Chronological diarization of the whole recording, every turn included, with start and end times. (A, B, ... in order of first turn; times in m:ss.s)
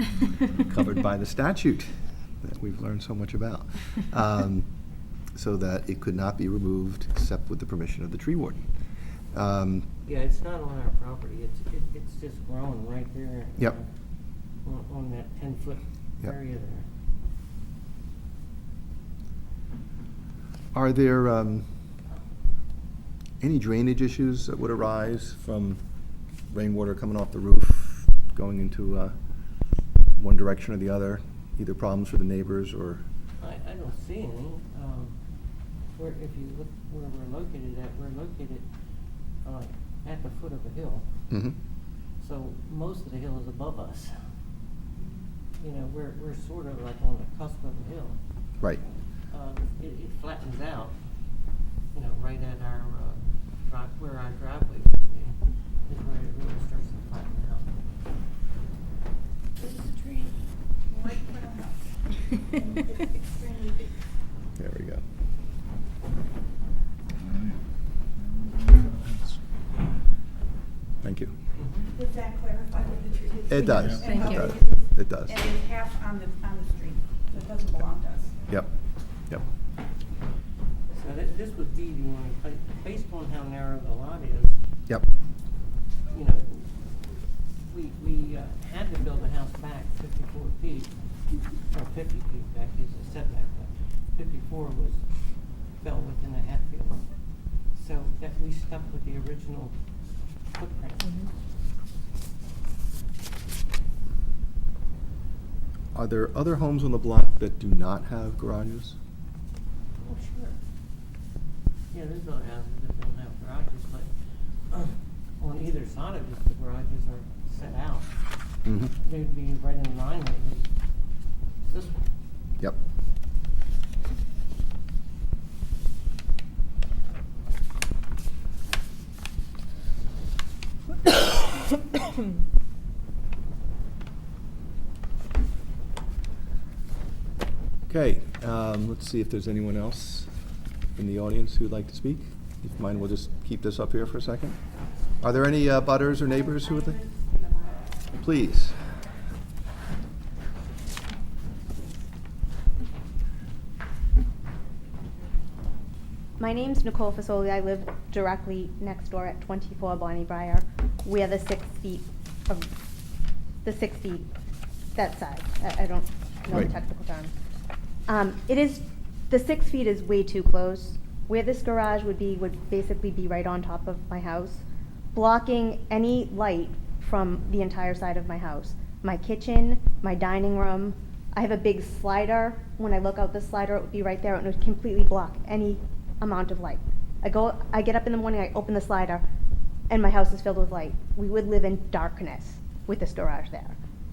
0:00.5-0:04.7 A
0:05.3-0:08.7 A
0:09.3-0:09.9 A
0:10.0-0:13.9 B
0:14.6-0:16.9 B
0:20.7-0:21.6 A
0:23.4-0:25.8 A
0:26.5-0:29.1 A
0:30.2-0:33.0 A
0:33.4-0:35.2 B
0:36.0-0:38.6 B
0:39.4-0:41.0 B
0:41.3-0:41.6 A
0:42.2-0:44.1 B
0:45.6-0:48.2 B
0:49.3-0:51.0 B
0:51.9-0:57.7 B
0:59.6-1:00.3 C
1:00.9-1:03.9 C
1:04.6-1:05.0 A
1:11.0-1:11.3 A
1:11.6-1:11.9 B
1:11.9-1:18.3 C
1:13.5-1:15.4 A
1:20.9-1:24.6 B
1:26.1-1:27.0 B
1:27.6-1:30.9 B
1:31.6-1:35.1 B
1:35.8-1:37.0 B
1:37.7-1:39.8 B
1:40.5-1:41.1 B
1:45.9-1:49.0 A
1:50.0-1:50.6 B
1:51.9-1:54.1 B
1:54.7-1:58.1 B
1:58.6-1:58.9 A
1:59.0-2:00.7 B
2:01.7-2:02.1 B
2:17.9-2:20.3 A
2:21.0-2:24.6 A
2:25.2-2:27.0 A
2:26.2-2:28.1 D
2:28.1-2:28.8 A
2:36.4-2:42.7 D
2:43.6-2:44.3 D
2:44.9-2:47.3 D
2:48.1-3:09.2 D
3:09.9-3:13.8 D